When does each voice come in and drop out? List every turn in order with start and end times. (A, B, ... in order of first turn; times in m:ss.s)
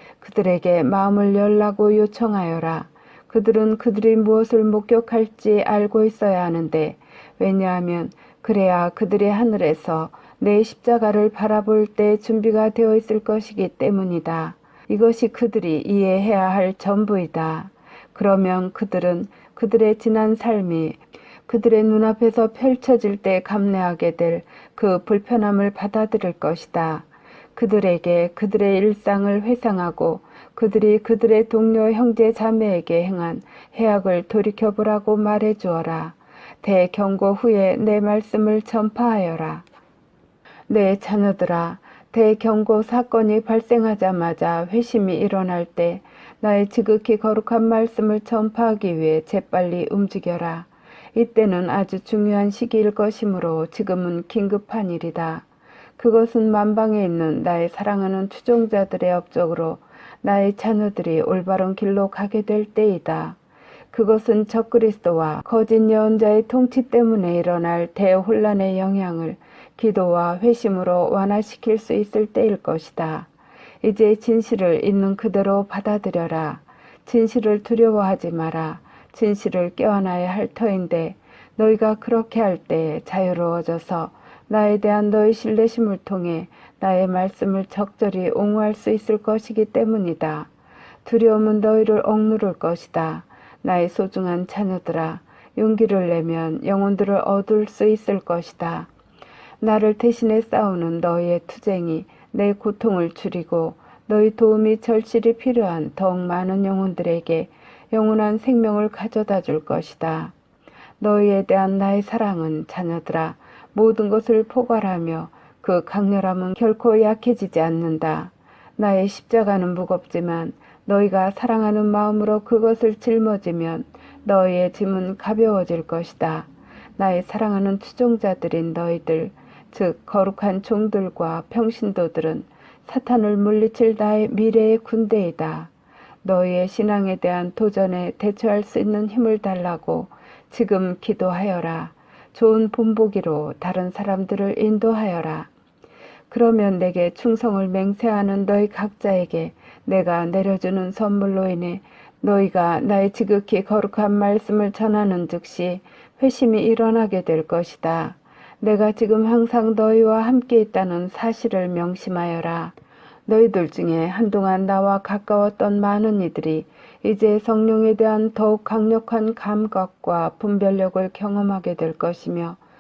0:00.2-0:39.7 A
0:40.7-0:55.4 A
0:56.0-1:03.4 A
1:03.9-1:13.3 A
1:13.8-1:30.5 A
1:31.0-1:38.9 A
1:39.6-1:50.3 A
1:51.0-2:15.7 A
2:16.2-2:25.5 A
2:26.3-2:42.8 A
2:43.3-2:52.6 A